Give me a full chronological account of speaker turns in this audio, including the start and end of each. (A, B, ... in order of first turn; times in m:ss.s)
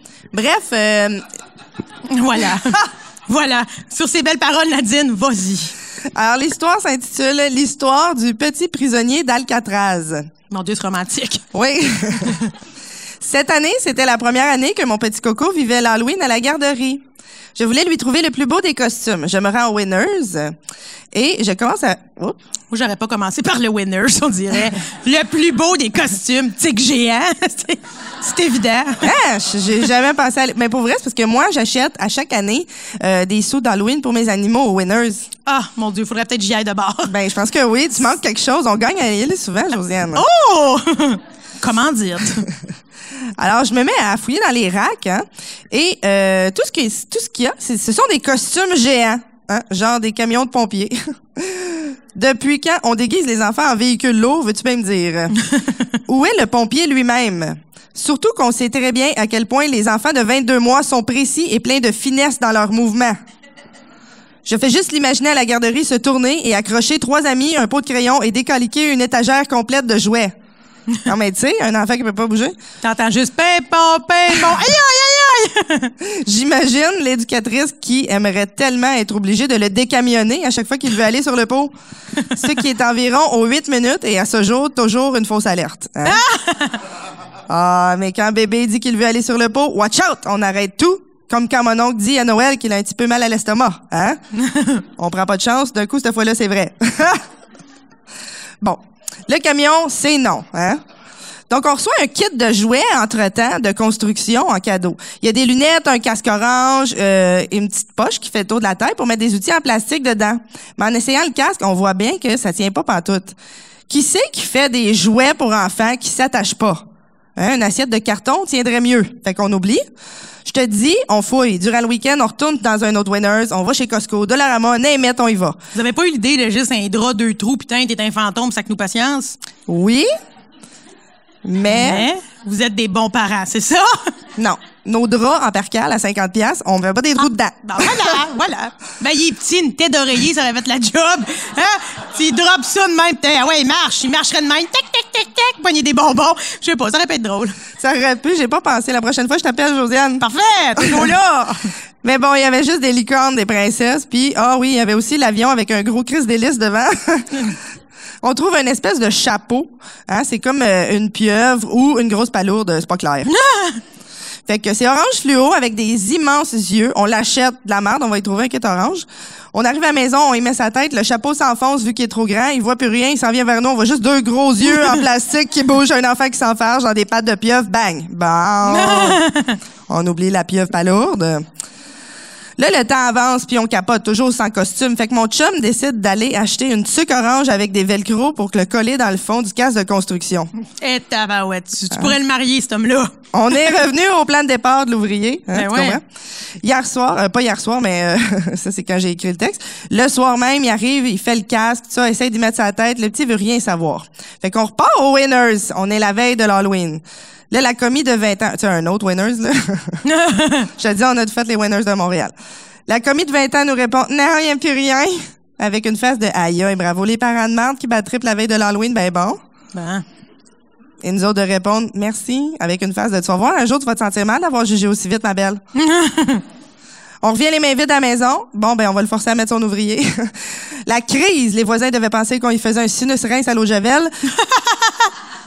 0:00.3-0:01.2 A
0:02.1-0:05.7 B
0:06.2-0:10.3 A
0:10.5-0:11.4 B
0:11.5-0:12.4 A
0:13.2-0:17.0 A
0:17.6-0:20.6 A
0:21.1-0:22.4 A
0:22.7-0:29.1 B
0:29.0-0:35.3 A
0:35.5-0:37.1 B
0:37.1-0:40.3 A
0:40.2-0:42.5 B
0:43.4-0:55.4 A
0:56.1-1:03.2 A
1:04.4-1:10.4 A
1:11.0-1:12.6 A
1:12.8-1:15.9 B
1:16.0-1:21.7 A
1:22.3-1:26.2 A
1:26.0-1:26.8 B
1:27.5-1:34.2 A
1:34.4-1:34.8 B
1:35.0-1:37.2 A
1:38.6-1:40.8 A
1:41.5-1:53.4 A
1:53.9-1:56.8 A
1:57.4-1:59.8 A
2:00.4-2:05.6 A
2:05.7-2:09.4 B
2:09.7-2:10.1 A
2:11.4-2:12.1 A
2:11.7-2:14.1 B
2:14.4-2:18.2 A
2:17.6-2:27.6 B
2:27.8-2:30.2 A
2:30.2-2:31.6 B
2:30.8-2:31.2 A
2:32.0-2:37.5 A
2:38.2-2:43.3 A
2:43.3-2:43.8 B
2:44.5-2:59.2 A
2:58.7-2:59.6 B
2:59.9-3:01.5 A
3:02.6-3:10.5 A
3:10.7-3:13.1 B
3:13.3-3:16.0 A
3:15.5-3:16.0 B
3:16.6-3:30.0 A
3:30.0-3:30.7 B
3:30.8-3:32.3 A
3:32.9-3:39.4 A
3:39.7-3:40.0 B
3:41.0-3:45.6 A
3:45.8-3:46.4 B
3:47.2-3:54.1 A
3:54.6-3:54.9 B